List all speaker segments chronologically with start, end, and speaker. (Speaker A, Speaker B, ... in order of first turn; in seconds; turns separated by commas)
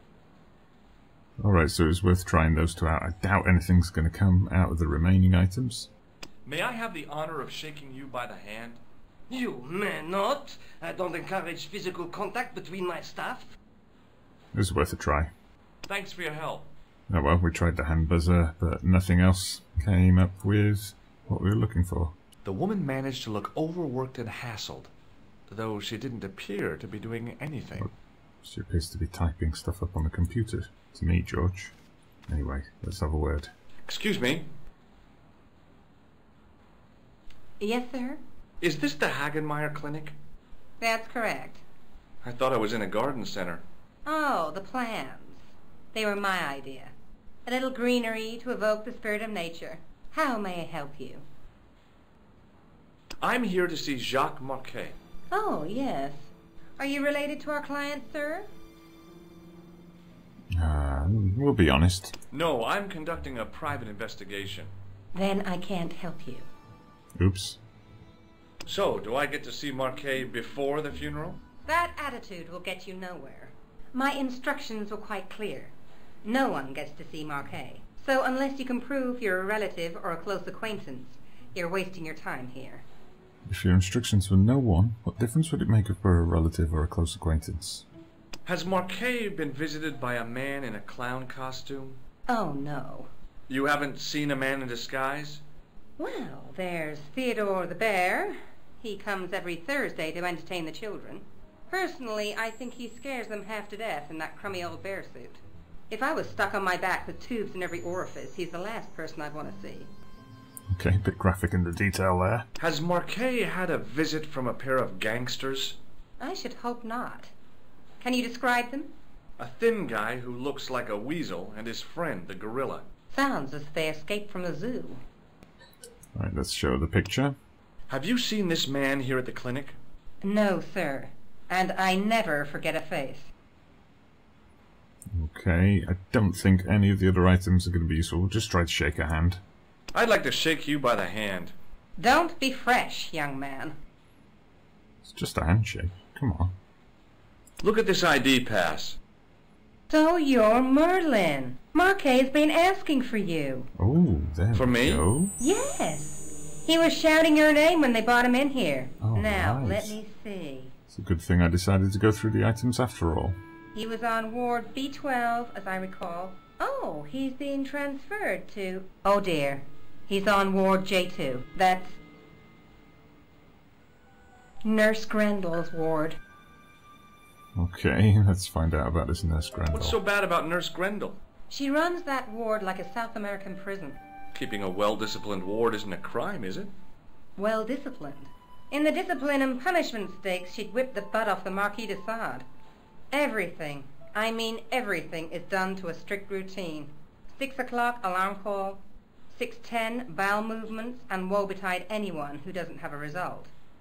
Speaker A: 1.4-5.9, Speaker B: 6.5-8.8, Speaker C: 9.3-13.6, Speaker A: 14.5-15.3, Speaker B: 15.9-16.7, Speaker A: 17.1-22.2, Speaker B: 22.4-24.9, Speaker B: 25.5-27.9, Speaker A: 28.4-31.8, Speaker A: 32.3-33.5, Speaker B: 33.9-34.5, Speaker D: 37.6-38.2, Speaker B: 38.6-40.2, Speaker D: 40.8-41.6, Speaker B: 42.2-43.6, Speaker D: 44.0-46.9, Speaker D: 47.5-51.2, Speaker B: 53.2-55.0, Speaker D: 55.3-58.5, Speaker A: 60.5-62.2, Speaker B: 62.3-64.7, Speaker D: 65.1-66.5, Speaker A: 67.2-67.6, Speaker B: 68.7-71.4, Speaker D: 71.7-75.7, Speaker D: 76.2-82.8, Speaker A: 83.5-87.9, Speaker B: 88.5-92.0, Speaker D: 92.3-93.1, Speaker B: 93.5-95.4, Speaker D: 96.0-109.9, Speaker A: 110.7-112.5, Speaker B: 112.6-115.8, Speaker D: 116.2-117.3, Speaker D: 118.0-118.9, Speaker B: 119.4-122.9, Speaker D: 123.1-125.0, Speaker A: 126.2-127.4, Speaker B: 127.9-129.8, Speaker D: 130.2-133.3, Speaker A: 135.1-139.4, Speaker B: 139.9-141.6, Speaker D: 142.0-143.8, Speaker A: 145.0-146.6, Speaker B: 147.6-149.0, Speaker D: 149.9-153.7, Speaker A: 153.8-155.3, Speaker B: 154.5-155.1, Speaker D: 155.4-160.7, Speaker A: 159.0-160.0, Speaker A: 160.9-163.4, Speaker D: 163.8-172.0, Speaker D: 174.6-176.2, Speaker A: 177.6-180.0, Speaker B: 179.7-181.2, Speaker D: 181.5-184.0, Speaker B: 184.3-186.7, Speaker D: 187.4-192.4, Speaker D: 193.1-203.5